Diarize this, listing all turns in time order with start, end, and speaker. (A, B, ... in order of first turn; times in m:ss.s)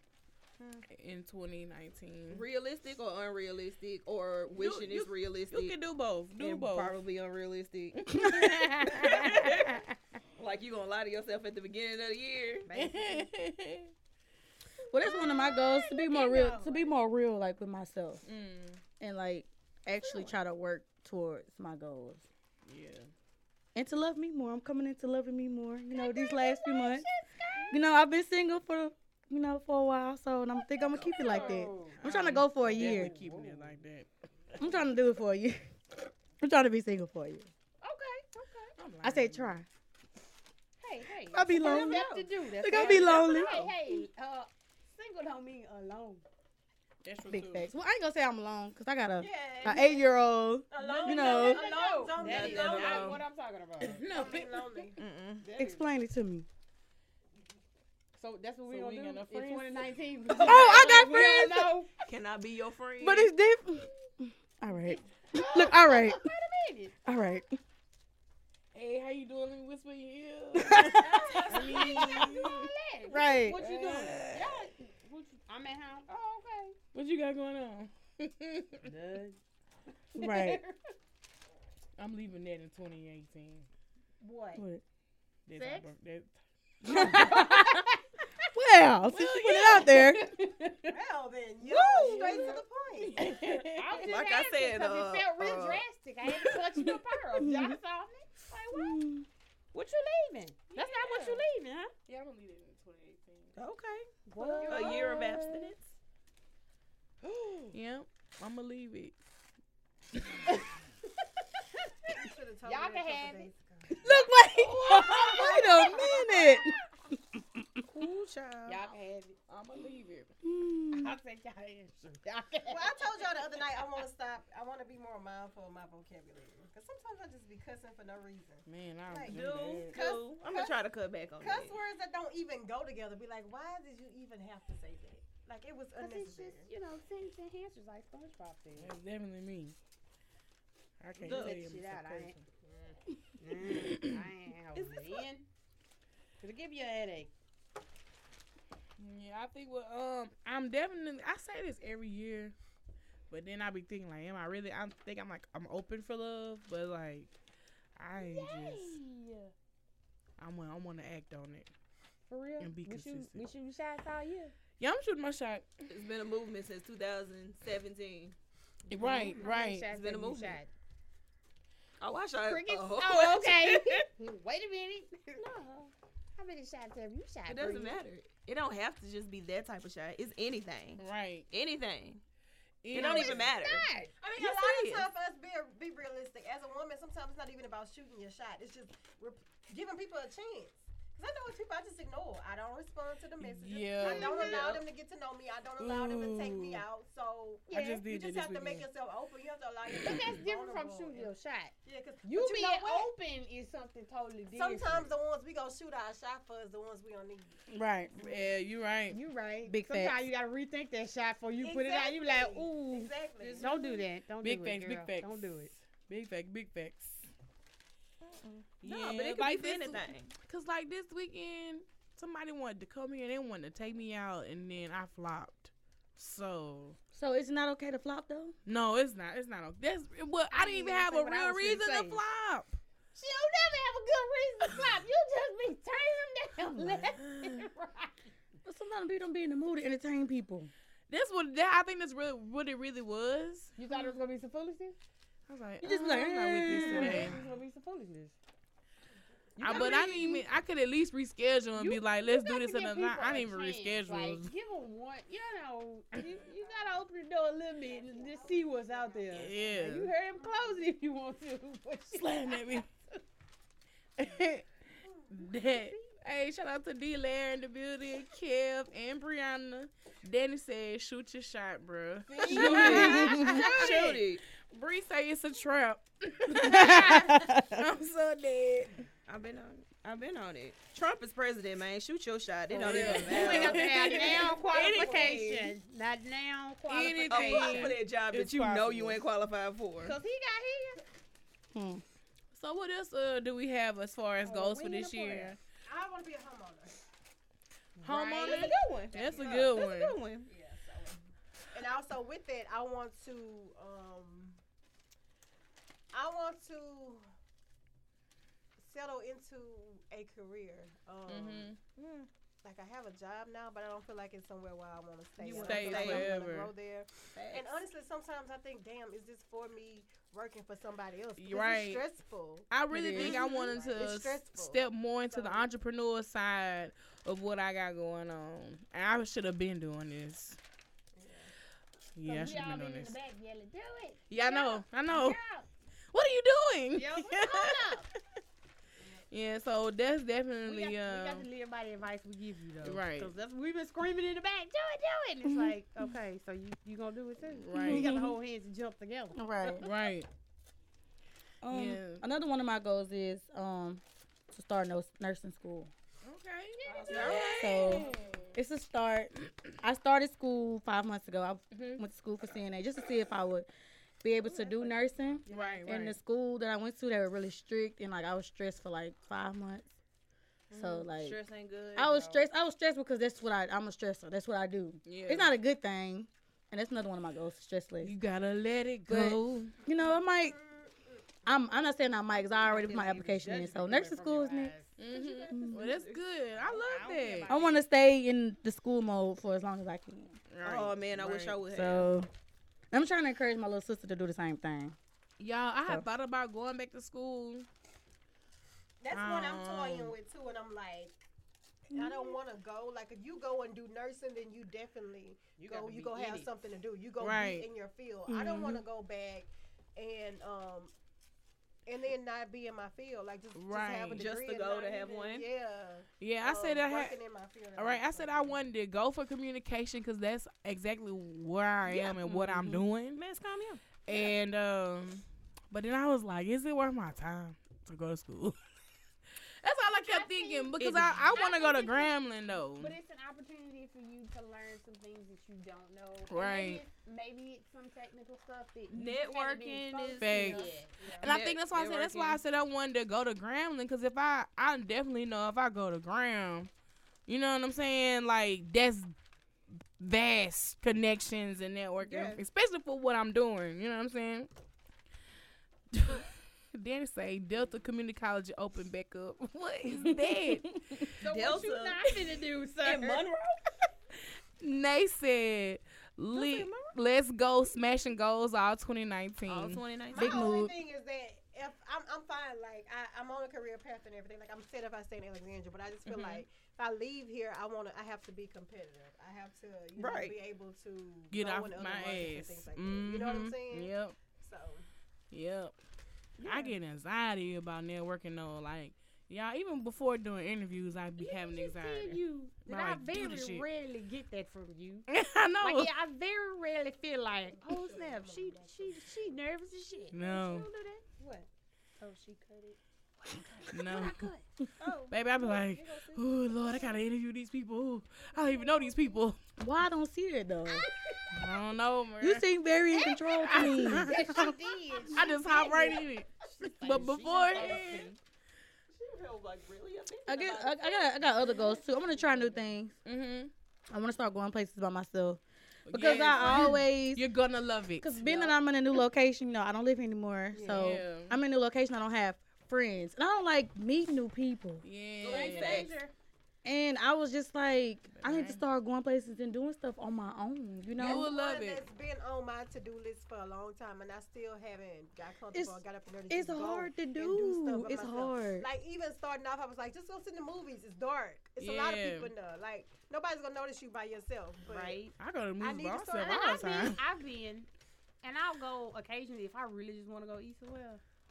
0:00.9-0:02.4 A
0:02.3-0:05.8 B
0:04.6-0:07.0 A
0:06.4-0:08.2 B
0:08.1-0:09.9 A
0:08.1-0:09.1 C
0:08.8-0:09.8 B
0:10.4-0:12.7 B
0:12.7-0:13.3 D
0:12.7-0:13.9 A
0:14.9-0:18.2 C
0:15.0-0:17.0 D
0:18.2-0:18.8 A
0:19.0-0:22.3 C
0:22.6-0:23.1 A
0:23.8-0:27.1 C
0:25.9-0:27.8 D
0:27.7-0:33.2 C
0:31.1-0:32.0 D
0:31.2-0:34.1 A
0:32.6-0:33.7 D
0:34.6-0:37.5 C
0:37.8-0:38.8 D
0:38.8-0:39.6 A
0:39.0-0:39.6 C
0:40.8-0:46.2 D
0:41.3-0:44.0 C
0:41.6-0:43.7 B
0:47.0-0:47.7 A
0:47.3-0:51.6 C
0:49.2-0:49.9 B
0:49.6-0:50.0 E
0:50.7-0:53.2 E
0:50.8-0:54.1 D
0:52.2-0:53.2 B
0:53.8-0:55.5 A
0:54.1-0:55.0 E
0:55.0-0:55.6 B
0:55.4-0:55.9 D
0:55.5-0:56.5 C
0:58.2-1:01.9 D
0:58.7-1:00.8 A
1:00.4-1:01.8 C
1:02.1-1:03.3 B
1:03.0-1:06.2 C
1:05.3-1:07.0 D
1:07.0-1:07.6 C
1:08.7-1:12.7 A
1:10.6-1:11.2 C
1:10.9-1:16.8 D
1:11.3-1:12.2 E
1:13.1-1:13.6 C
1:13.5-1:14.6 A
1:16.9-1:18.9 A
1:18.8-1:19.4 D
1:20.2-1:20.6 C
1:20.2-1:20.8 D
1:22.0-1:23.7 A
1:24.2-1:24.6 D
1:24.6-1:24.8 C
1:25.5-1:26.4 A
1:25.5-1:25.9 D
1:26.8-1:28.0 D
1:26.9-1:27.8 C
1:28.5-1:30.2 C
1:29.1-1:30.2 A
1:29.8-1:30.9 D
1:30.9-1:33.4 E
1:31.7-1:32.3 B
1:32.0-1:34.0 A
1:32.0-1:32.5 D
1:33.4-1:39.0 D
1:34.0-1:35.8 B
1:36.3-1:37.0 A
1:37.4-1:37.8 C
1:38.7-1:39.3 C
1:39.7-1:41.9 D
1:40.7-1:41.4 A
1:42.1-1:43.6 A
1:43.6-1:44.1 B
1:44.3-1:45.7 D
1:44.4-1:45.2 A
1:44.7-1:45.9 B
1:47.3-1:49.2 A
1:52.1-1:54.2 E
1:52.6-1:53.5 D
1:53.9-1:57.6 C
1:54.6-1:55.6 A
1:54.8-1:56.5 D
1:55.8-1:56.2 E
1:58.0-1:58.8 B
1:58.6-1:59.4 D
1:59.5-2:00.3 A
2:00.4-2:01.2 C
2:00.9-2:03.2 D
2:02.7-2:09.4 E
2:08.7-2:10.0 A
2:09.3-2:11.8 B
2:09.9-2:10.8 E
2:11.4-2:16.7 E
2:16.0-2:18.9 D
2:18.8-2:19.8 A
2:21.0-2:22.4 A
2:21.2-2:22.4 D
2:21.2-2:21.6 B
2:23.4-2:25.5 D
2:23.6-2:24.3 A
2:24.8-2:25.2 E
2:26.4-2:27.3 D
2:29.0-2:32.6 A
2:33.3-2:37.3 A
2:38.0-2:39.0 A
2:38.2-2:39.5 D
2:40.4-2:41.7 A
2:42.3-2:44.6 D
2:42.6-2:43.5 A
2:44.8-2:45.9 A
2:45.9-2:48.4 B
2:48.9-2:49.9 A
2:49.0-2:50.7 D
2:49.9-2:50.6 B
2:52.0-2:54.0 B
2:52.4-2:58.0 D
2:57.5-3:02.2 B
3:01.0-3:01.5 A
3:02.8-3:03.5 A
3:02.9-3:03.8 B
3:02.9-3:04.1 D
3:04.2-3:21.3 E
3:04.4-3:05.1 B
3:13.4-3:14.7 A
3:14.0-3:14.8 D
3:14.5-3:14.8 B
3:15.8-3:16.8 A
3:17.7-3:18.1 D
3:17.7-3:18.8 A
3:19.9-3:20.3 A
3:20.0-3:21.7 D
3:21.8-3:23.1 E
3:22.2-3:25.1 D
3:24.5-3:27.6 E
3:27.7-3:28.1 C
3:28.1-3:29.2 A
3:29.1-3:35.7 D
3:29.7-3:30.2 C
3:31.6-3:33.8 E
3:33.4-3:34.0 B
3:34.4-3:37.3 A
3:38.3-3:40.3 B
3:38.8-3:47.0 A
3:47.1-3:48.6 C
3:48.7-3:52.8 A
3:50.5-3:52.2 D
3:53.1-3:58.3 D
3:56.7-3:57.1 C
3:57.2-3:57.6 A
3:58.6-4:00.7 C
4:01.1-4:03.7 A
4:03.8-4:05.0 D
4:05.5-4:07.4 A
4:05.8-4:07.4 C
4:06.7-4:08.4 D
4:09.6-4:10.4 D
4:09.6-4:14.5 A
4:09.7-4:10.4 B
4:11.8-4:22.9 D
4:16.3-4:17.0 E
4:17.8-4:20.9 E
4:19.3-4:20.1 A
4:22.1-4:22.9 A
4:24.2-4:24.7 A
4:25.3-4:39.1 A
4:25.4-4:26.1 D
4:32.4-4:34.4 B
4:32.4-4:33.1 E
4:32.5-4:33.7 C
4:32.7-4:33.6 D
4:36.5-4:37.8 C
4:36.6-4:37.4 D
4:39.3-4:45.8 B
4:42.7-4:48.0 D
4:42.8-4:44.6 A
4:46.9-4:49.2 A
4:47.3-4:50.2 B
4:50.0-4:51.0 D
4:51.7-4:52.0 C
4:52.5-4:55.6 A
4:54.4-4:55.6 D
4:55.9-4:57.0 E
4:58.0-4:58.8 D
4:58.0-5:00.2 A
4:58.4-5:00.5 B
4:58.6-4:59.8 E
5:00.5-5:01.2 E
5:01.7-5:04.6 E
5:06.1-5:07.2 E
5:08.8-5:11.7 E
5:11.3-5:11.8 A
5:12.0-5:12.3 B
5:12.6-5:25.7 E
5:15.4-5:16.3 B
5:15.6-5:16.7 A
5:17.4-5:17.9 B
5:21.4-5:22.1 A
5:22.7-5:30.6 A
5:22.9-5:23.4 C
5:23.2-5:23.9 D
5:31.2-5:31.5 E
5:32.2-5:33.2 A
5:32.2-5:35.7 D
5:34.3-5:35.4 A
5:36.1-5:38.0 A
5:36.9-5:38.1 D
5:39.3-5:41.5 A
5:40.6-5:49.8 D
5:42.8-5:43.3 A
5:45.4-5:45.8 C
5:47.5-5:48.1 A
5:47.7-5:48.4 C
5:49.4-5:49.9 C
5:49.8-5:50.3 A
5:51.6-5:55.9 C
5:51.7-5:52.2 A
5:56.2-5:58.6 A
5:56.8-5:57.6 D
5:56.9-5:58.1 B
5:56.9-5:57.4 E
5:57.4-6:03.7 C
6:01.7-6:02.0 A
6:04.2-6:09.9 C
6:04.6-6:05.8 D
6:05.5-6:06.2 A
6:10.7-6:12.5 B
6:10.7-6:11.4 C
6:12.0-6:18.1 C
6:15.0-6:15.5 A
6:18.0-6:19.8 A
6:19.1-6:20.6 C
6:20.0-6:21.2 E
6:21.4-6:24.7 C
6:22.6-6:24.9 D
6:25.0-6:27.6 A
6:25.1-6:26.0 E
6:25.5-6:25.8 C
6:25.7-6:26.2 B
6:26.6-6:27.9 D
6:27.5-6:30.4 C
6:30.5-6:31.6 A
6:30.6-6:32.1 B
6:31.7-6:32.3 C
6:32.9-6:35.0 C
6:35.4-6:37.7 A
6:39.0-6:41.2 E
6:39.1-6:40.1 A
6:41.9-6:42.4 C
6:41.9-6:50.9 E
6:45.6-6:46.5 B
6:46.0-6:46.4 D
6:47.2-6:47.7 A
6:48.3-6:48.8 C
6:51.9-6:58.6 E
6:53.5-6:54.2 A
6:54.2-6:55.5 B
6:56.2-6:57.2 A
6:57.8-7:03.2 A
7:01.9-7:03.9 B
7:04.1-7:08.6 A
7:09.6-7:13.0 A
7:09.9-7:21.3 D
7:10.8-7:11.4 B
7:16.3-7:16.8 A
7:18.9-7:22.4 B
7:20.2-7:26.7 A
7:27.3-7:29.1 A
7:30.0-7:34.5 A
7:32.0-7:32.4 B
7:35.9-7:41.2 A
7:40.0-7:41.0 C
7:41.2-7:43.2 D
7:41.3-7:42.1 B
7:42.8-7:43.6 B
7:44.6-7:49.8 A
7:49.5-7:50.6 B
7:50.1-8:04.8 E
7:50.2-7:50.7 C
7:56.1-7:56.4 A
8:00.0-8:00.4 B
8:01.3-8:04.2 A
8:05.3-8:05.8 A
8:06.4-8:06.7 B
8:06.4-8:13.7 A
8:11.2-8:15.1 D
8:15.1-8:15.9 A
8:15.6-8:21.5 D
8:17.5-8:19.4 E
8:20.1-8:20.7 A
8:22.0-8:22.8 D
8:23.3-8:24.4 D
8:23.7-8:24.3 A
8:24.8-8:26.6 B
8:25.1-8:29.4 A
8:29.6-8:30.9 C
8:30.7-8:31.2 D
8:31.3-8:32.5 A
8:32.2-8:34.5 C
8:32.9-8:38.2 D
8:33.5-8:34.6 A
8:35.1-8:38.2 A
8:37.5-8:37.9 B
8:38.9-8:41.5 B
8:40.3-8:43.0 C
8:43.0-8:43.5 A
8:43.9-8:47.2 C
8:45.9-8:48.1 A
8:46.4-8:46.7 D
8:48.0-8:54.8 C
8:48.2-8:48.5 D
8:50.5-8:51.0 E
8:50.7-8:51.4 A
8:54.8-8:56.0 A
8:55.2-8:56.0 B
8:55.2-8:56.1 D
8:56.6-9:01.3 C
8:58.1-8:58.6 A
9:01.0-9:01.9 A
9:01.0-9:15.0 E
9:05.5-9:08.7 C
9:11.6-9:12.3 A
9:14.7-9:15.2 D
9:15.2-9:17.0 A
9:15.6-9:16.6 E
9:16.2-9:17.7 D
9:18.2-9:21.0 D